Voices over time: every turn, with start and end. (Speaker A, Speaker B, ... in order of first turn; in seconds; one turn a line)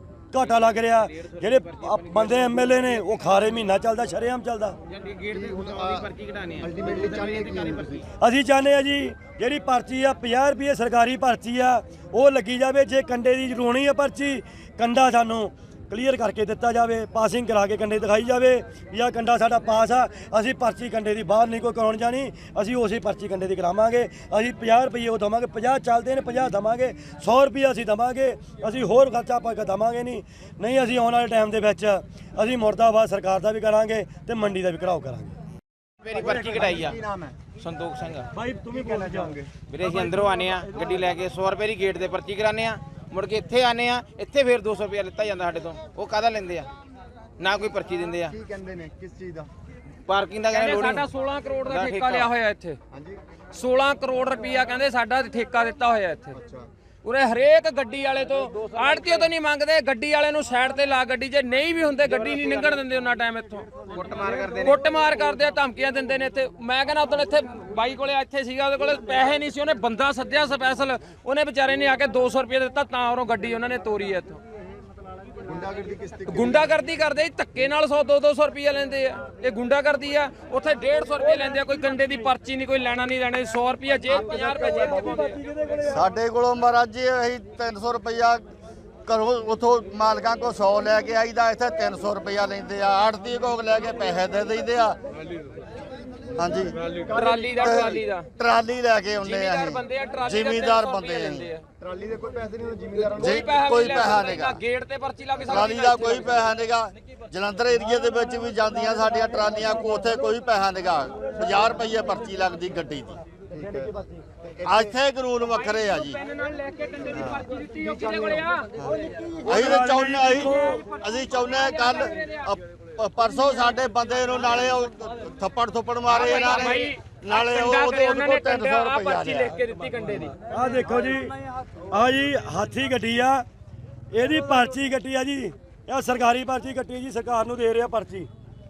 Speaker A: 0.3-4.8
Speaker B: 0.4-3.2
Speaker B: 4.9-8.1
Speaker C: 5.3-8.1
Speaker A: 8.2-35.4
Speaker B: 36.0-37.0
Speaker C: 36.1-37.4
Speaker B: 37.6-38.3
Speaker A: 38.3-41.0
Speaker C: 38.7-39.5
Speaker B: 39.7-46.7
Speaker B: 47.4-48.3
Speaker C: 48.3-49.5
Speaker B: 50.1-51.0
Speaker D: 50.5-52.8
Speaker B: 51.7-52.3
Speaker C: 52.9-53.2
Speaker D: 53.5-56.4
Speaker C: 56.3-56.7
Speaker D: 57.0-63.8
Speaker B: 58.7-59.2
Speaker B: 62.2-62.8
Speaker B: 63.9-64.8
Speaker D: 64.5-74.4
Speaker C: 75.4-76.8
Speaker D: 76.3-85.4
Speaker A: 84.1-86.1
Speaker E: 85.8-88.4
Speaker E: 89.0-95.0
Speaker E: 96.3-96.8
Speaker C: 96.9-98.0
Speaker D: 97.1-98.3
Speaker E: 97.5-101.5
Speaker D: 99.2-101.6
Speaker C: 101.8-103.6
Speaker D: 103.0-106.4
Speaker E: 103.2-104.6
Speaker E: 105.4-113.2
Speaker C: 113.5-115.0
Speaker E: 114.7-116.2
Speaker D: 115.5-118.7
Speaker E: 117.1-117.5
Speaker C: 117.7-118.5
Speaker E: 118.8-129.6
Speaker A: 119.4-120.8
Speaker D: 120.4-122.5
Speaker D: 126.0-130.3
Speaker A: 130.5-131.3
Speaker A: 131.9-133.4
Speaker A: 134.1-138.3